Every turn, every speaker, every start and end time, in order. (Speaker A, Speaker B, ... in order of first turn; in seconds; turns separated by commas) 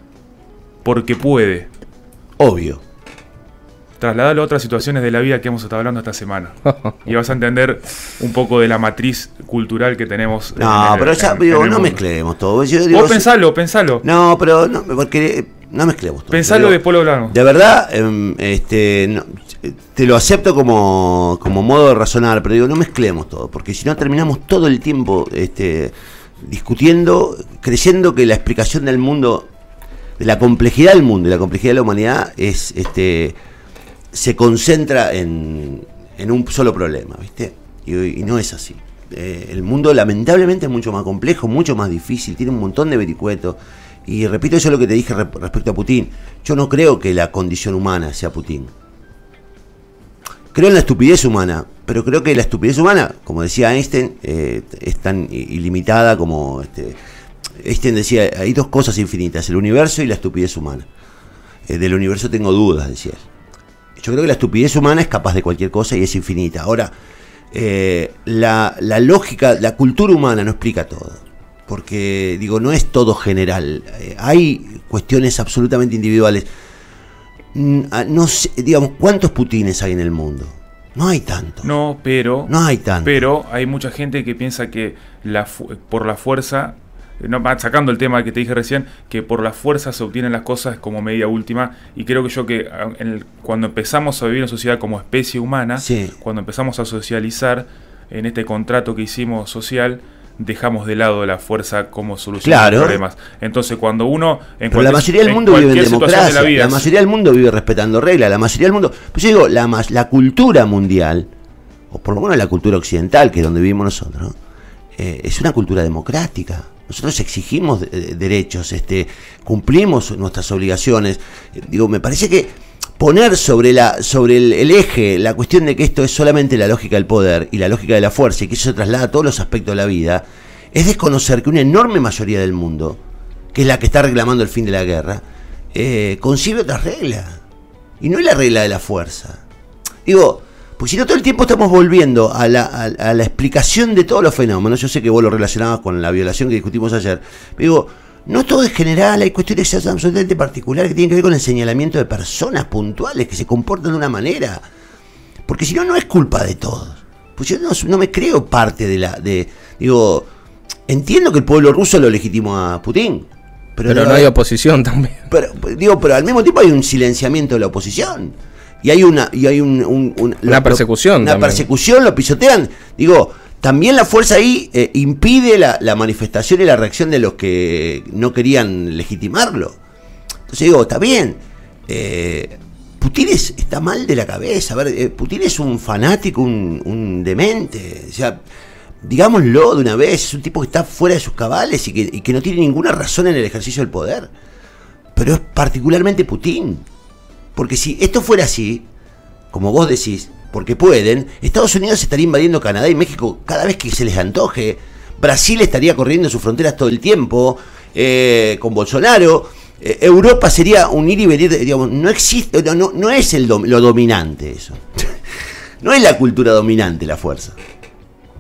Speaker A: 0.8-1.7, Speaker B: 2.4-2.8, Speaker A: 4.0-12.0, Speaker B: 10.6-13.2, Speaker A: 12.9-14.0, Speaker B: 14.0-16.8, Speaker A: 16.3-17.4, Speaker B: 17.3-29.5, Speaker B: 30.2-33.4, Speaker B: 34.1-48.7, Speaker B: 50.5-57.0, Speaker B: 57.6-60.9, Speaker B: 61.7-63.2, Speaker B: 64.0-66.9, Speaker B: 67.5-76.5, Speaker B: 77.5-81.7, Speaker A: 81.6-82.5, Speaker B: 82.5-83.2, Speaker A: 83.0-106.9, Speaker B: 95.8-96.1, Speaker B: 102.4-103.0, Speaker B: 104.7-111.3, Speaker B: 111.9-114.3, Speaker B: 115.0-133.0, Speaker B: 133.5-135.2, Speaker B: 135.7-137.4, Speaker B: 138.0-139.4, Speaker B: 140.1-154.6, Speaker B: 155.5-160.3, Speaker B: 160.9-164.3, Speaker C: 163.9-165.2, Speaker B: 165.3-179.8, Speaker C: 170.5-171.6, Speaker B: 180.5-188.4, Speaker B: 189.0-194.3, Speaker B: 195.2-196.8, Speaker B: 197.6-198.8, Speaker B: 199.5-215.2, Speaker B: 215.8-217.6